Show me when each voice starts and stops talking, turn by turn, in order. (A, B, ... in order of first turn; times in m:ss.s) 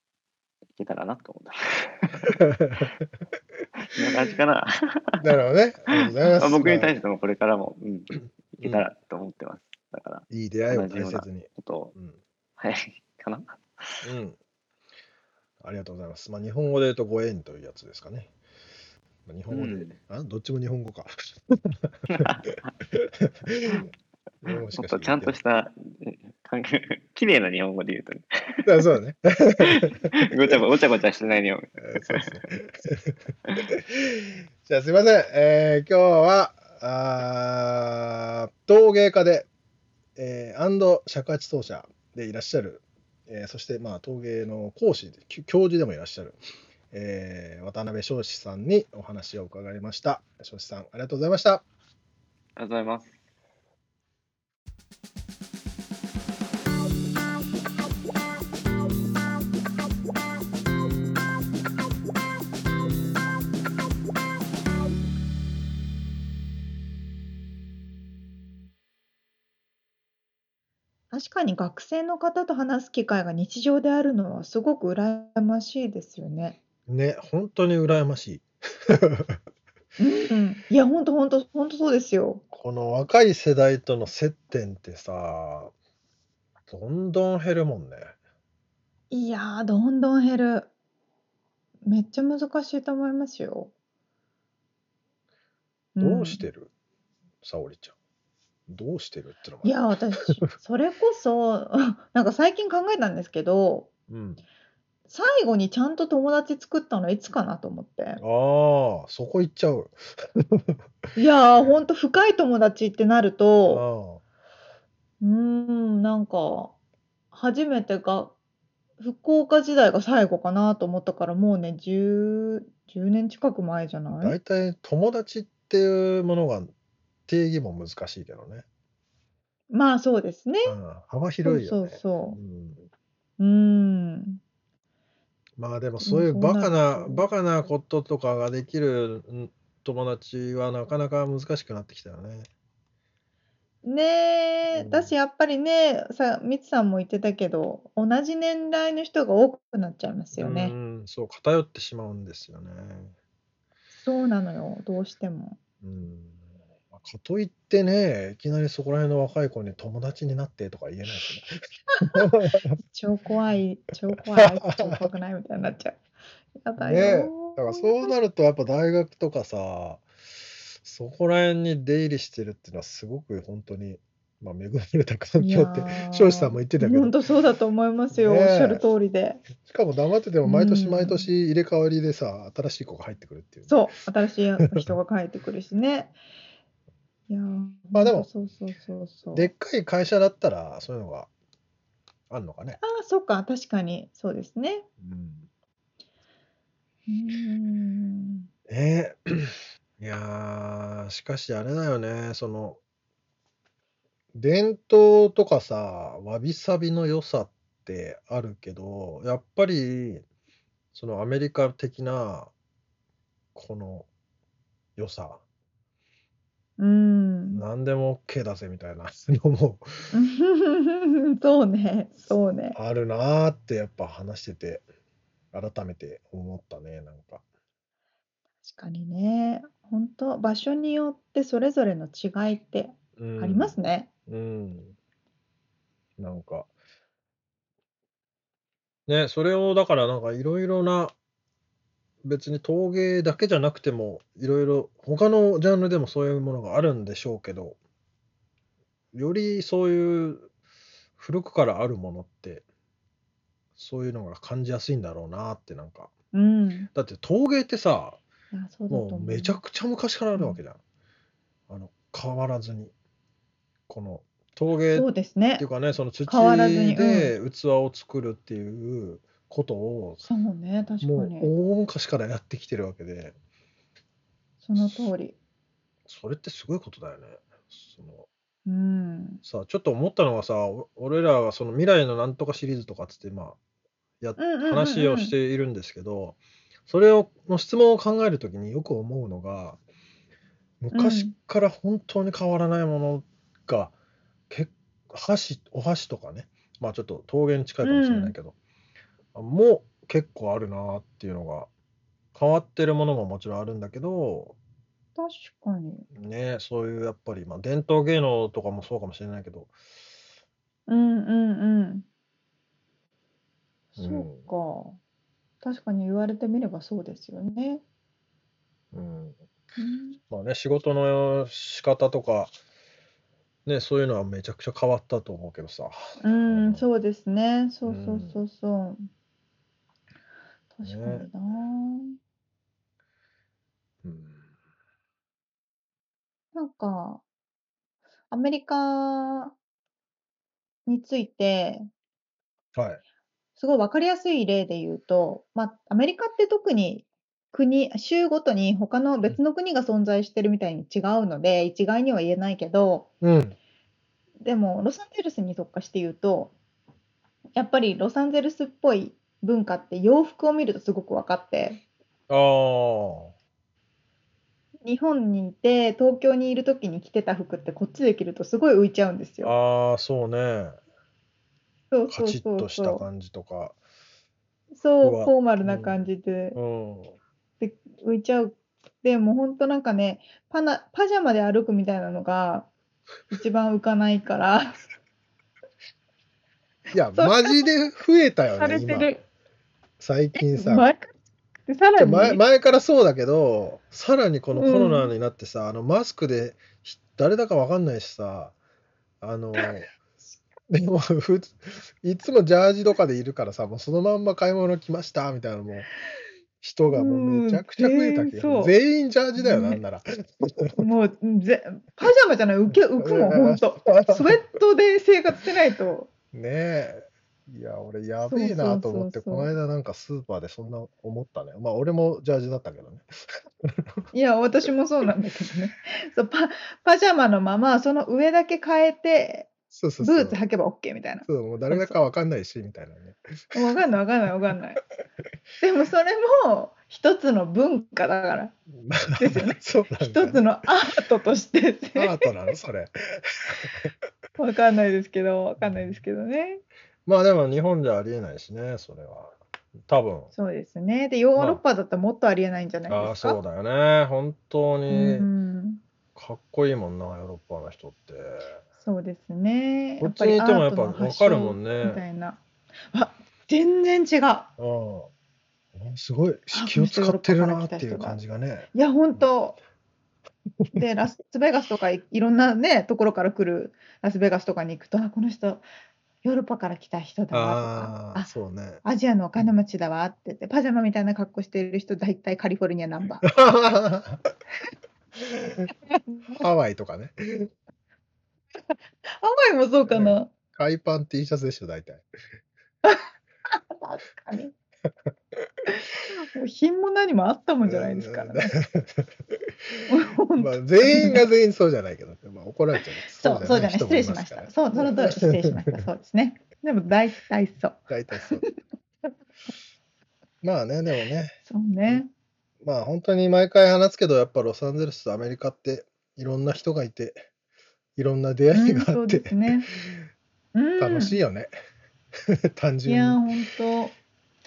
0:00.7-0:02.3 A
0:02.2-0:03.1 B
0:03.8-0:05.2 A
0:05.2-0:06.9 B
0:05.9-0:11.9 A
0:10.3-0:12.2 B
0:12.6-0:14.1 A
0:14.0-0:14.4 B
0:15.6-0:18.3 B
0:19.2-0:22.3 B
0:19.5-0:20.0 A
0:22.1-0:22.7 A
0:22.9-0:23.9 B
0:24.4-0:25.4 B
0:24.5-0:28.8 A
0:28.6-0:30.6 B
0:29.6-0:32.3 A
0:31.8-0:39.5 B
0:40.2-0:46.4 B
0:46.9-0:51.6 B
0:52.6-0:53.1 A
1:11.1-1:16.6 C
1:16.9-1:19.4 B
1:20.0-1:22.4 C
1:22.5-1:25.7 B
1:26.7-1:28.1 B
1:29.1-1:30.7 C
1:31.8-1:33.7 C
1:36.0-1:36.4 C
1:36.0-1:36.7 B
1:37.4-1:37.9 B
1:38.7-1:39.8 B
1:39.6-1:43.9 C
1:44.1-1:44.4 B
1:45.1-1:48.2 C
1:48.2-1:50.8 B
1:51.2-1:53.8 C
1:53.7-1:54.2 B
1:55.2-1:56.7 C
1:57.3-1:58.3 C
1:59.0-2:04.4 C
2:04.2-2:06.7 B
2:07.3-2:08.6 B
2:09.7-2:10.8 C
2:10.6-2:12.9 B
2:11.4-2:12.4 C
2:13.4-2:14.4 C
2:15.6-2:22.5 B
2:16.0-2:17.2 C
2:23.8-2:30.7 C
2:24.7-2:25.1 B
2:30.3-2:33.1 B
2:34.0-2:35.6 C
2:35.8-2:36.4 B
2:36.9-2:41.5 B
2:42.0-2:46.0 C
2:42.1-2:42.8 B
2:44.4-2:45.0 B
2:46.6-2:48.1 C
2:46.8-2:50.0 B
2:50.7-2:57.2 B
2:55.4-2:59.4 C
2:58.1-2:58.8 B
2:59.6-3:03.8 B
3:00.4-3:01.3 C
3:03.7-3:06.1 C
3:04.7-3:05.0 B
3:07.3-3:09.5 C
3:07.9-3:08.3 B
3:09.3-3:11.3 B
3:12.3-3:12.8 B
3:12.8-3:14.8 C
3:15.0-3:15.5 B
3:17.1-3:18.5 C
3:18.7-3:22.8 B
3:24.3-3:30.2 B
3:30.9-3:32.5 B
3:33.5-3:34.1 B
3:35.0-3:35.4 B
3:36.8-3:37.6 C
3:37.5-3:40.1 B
3:40.1-3:42.8 C
3:42.7-3:44.8 B
3:45.5-3:47.4 B
3:48.6-3:54.1 C
3:53.2-3:53.7 B
3:54.3-3:54.9 B
3:56.2-3:56.7 B
3:59.1-4:01.1 B
4:02.2-4:07.8 B
4:09.1-4:10.5 B
4:11.2-4:12.6 B
4:13.8-4:16.1 B
4:16.3-4:16.9 C
4:16.9-4:18.2 B
4:18.5-4:19.6 C
4:18.9-4:20.8 B
4:21.7-4:22.9 B
4:23.9-4:30.2 B
4:24.9-4:25.6 C
4:26.3-4:27.3 C
4:30.2-4:31.5 C
4:31.0-4:33.3 B
4:34.6-4:35.4 C
4:34.8-4:35.1 B
4:36.1-4:38.3 B
4:38.6-4:39.4 C
4:39.4-4:43.6 B
4:44.2-4:49.8 B
4:44.4-4:45.3 C
4:50.8-4:53.9 B
4:50.9-4:51.3 C
4:54.5-4:58.5 B
4:57.8-4:58.3 C
4:59.3-5:01.7 B
5:02.3-5:04.6 B
5:05.2-5:06.0 C
5:06.1-5:09.7 B
5:10.9-5:12.0 C
5:13.9-5:15.0 C
5:14.0-5:14.5 B
5:15.6-5:17.8 C
5:18.9-5:19.4 B
5:19.8-5:20.2 C
5:20.3-5:22.5 B
5:23.6-5:26.8 B
5:26.2-5:29.1 C
5:27.8-5:28.4 B
5:30.7-5:32.2 C
5:30.8-5:31.3 B
5:34.0-5:34.4 B
5:36.5-5:37.2 C
5:38.3-5:39.5 C
5:40.8-5:41.9 C
5:42.7-5:43.0 B
5:43.6-5:53.1 C
5:53.2-5:53.6 B
5:54.4-5:56.5 C
5:57.5-6:01.8 C
6:02.3-6:03.3 B
6:04.8-6:09.5 C
6:09.4-6:10.8 B
6:11.9-6:13.0 C
6:12.1-6:13.8 B
6:14.7-6:16.6 C
6:15.0-6:17.2 B
6:17.6-6:22.7 C
6:23.3-6:24.8 C
6:26.9-6:29.1 B
6:27.1-6:27.6 C
6:28.6-6:29.2 C
6:30.0-6:30.9 B
6:30.4-6:31.1 C
6:31.7-6:32.4 C
6:32.0-6:38.5 B
6:34.5-6:35.1 C
6:39.2-6:39.9 B
6:40.7-6:45.9 B
6:46.6-6:50.8 B
6:46.9-6:48.7 C
6:49.4-6:49.8 C
6:50.8-6:56.1 C
6:52.7-6:54.3 B
6:56.3-7:04.0 B
6:58.2-6:59.5 C
7:04.1-7:12.0 C
7:09.7-7:10.4 B
7:11.2-7:13.6 B
7:13.5-7:14.8 C
7:15.6-7:18.5 C
7:18.8-7:20.4 B
7:19.2-7:22.2 C
7:21.9-7:23.9 B
7:24.4-7:26.6 C
7:25.6-7:26.0 B
7:27.0-7:29.3 B
7:29.9-7:30.3 B
7:30.3-7:33.4 C
7:31.4-7:31.6 B
7:32.9-7:35.3 B
7:34.9-7:35.8 C
7:36.1-7:38.6 B
7:38.8-7:42.4 C
7:40.0-7:42.0 B
7:42.9-7:44.5 C
7:44.6-7:45.1 B
7:45.7-7:49.2 B
7:46.5-7:48.2 C
7:48.7-7:49.6 C
7:50.7-7:55.6 C
7:56.2-7:58.3 C
7:57.3-7:58.8 B
7:58.8-8:03.2 C
8:03.2-8:04.2 B
8:05.2-8:05.7 B
8:05.9-8:06.4 C
8:06.4-8:07.5 B
8:09.1-8:10.3 C
8:09.9-8:12.0 B
8:12.8-8:14.5 C
8:16.3-8:18.5 C
8:17.6-8:19.9 B
8:19.9-8:21.2 C
8:20.4-8:25.8 B
8:23.2-8:28.5 C
8:27.9-8:28.4 B
8:30.4-8:31.4 B
8:31.4-8:32.1 C
8:32.6-8:37.2 B
8:38.0-8:40.1 B
8:38.5-8:39.7 C
8:40.5-8:41.2 C
8:40.8-8:41.5 B
8:42.3-8:43.2 B
8:42.8-8:43.9 C